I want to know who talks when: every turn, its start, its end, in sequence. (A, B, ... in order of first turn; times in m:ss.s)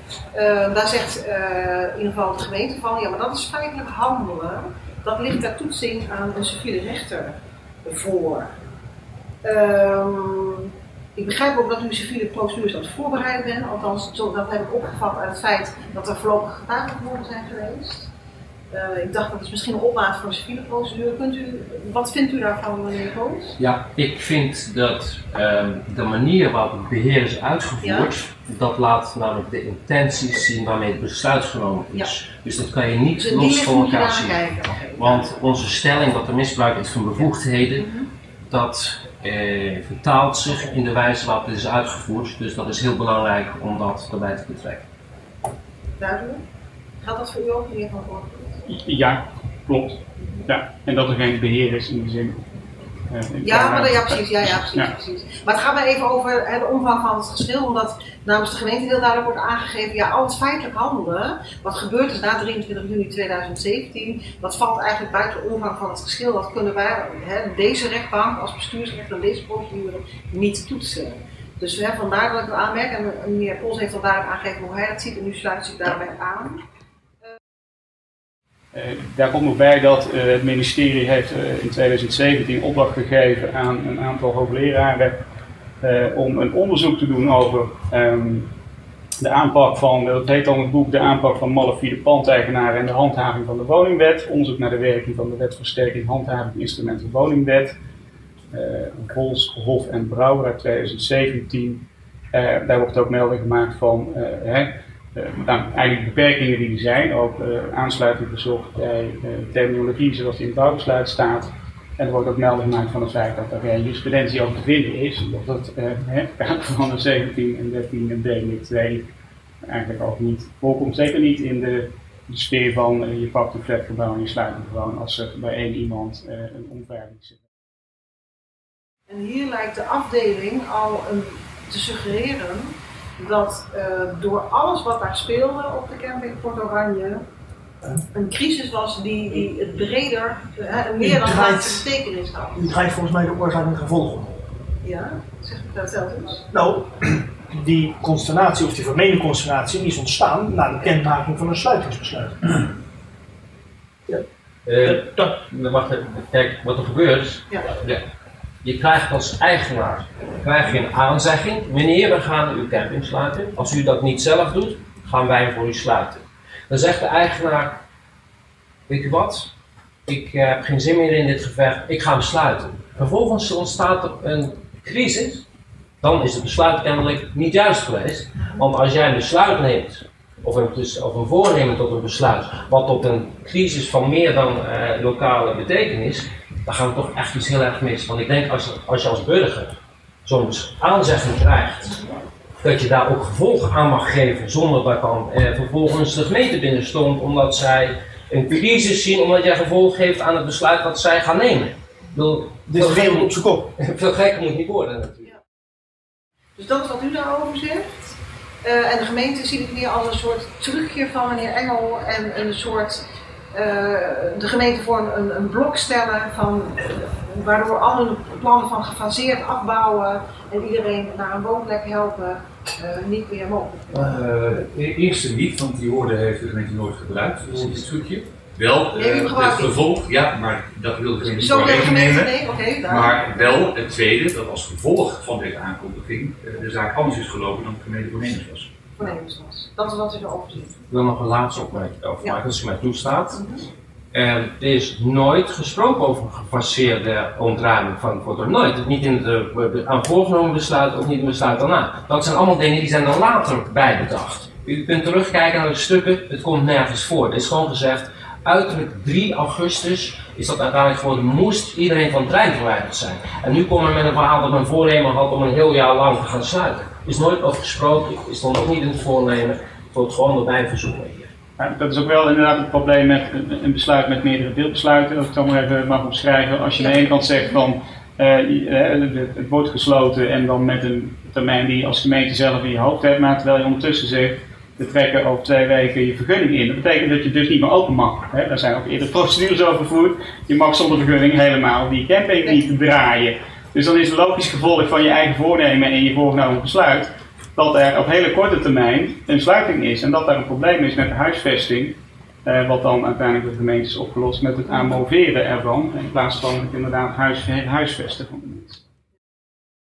0:00.3-0:08.5 A
0:09.4-0:18.1 A
0:18.7-0:23.6 A
0:23.6-0:34.4 B
0:27.8-0:28.1 A
0:33.2-0:35.3 A
0:35.0-0:37.9 B
0:37.8-0:38.1 A
0:38.5-0:44.8 B
0:46.0-0:46.4 A
0:47.0-0:48.6 A
0:48.6-0:52.4 C
0:53.1-0:54.9 C
0:53.4-1:16.6 A
1:18.7-1:25.2 C
1:25.8-1:28.5 C
1:29.2-1:37.8 C
1:38.5-1:59.1 C
1:59.6-2:07.4 C
2:09.1-2:17.2 A
2:18.1-2:22.6 A
2:21.0-2:21.9 D
2:22.6-2:24.3 D
2:24.8-2:26.5 A
2:26.5-2:32.6 D
2:34.6-2:38.0 B
2:34.8-2:35.2 D
2:38.6-2:47.8 B
2:48.9-2:49.5 B
2:50.0-2:55.4 B
2:56.0-3:12.0 B
3:12.6-3:25.3 B
3:22.7-3:23.7 D
3:26.6-3:28.1 A
3:28.6-3:33.0 A
3:33.5-3:44.1 A
3:43.9-3:58.7 E
3:48.9-3:49.8 A
3:51.2-3:53.3 A
3:59.0-4:00.8 A
4:00.9-4:03.4 B
4:03.3-4:03.6 A
4:04.1-4:31.3 B
4:31.6-5:08.8 C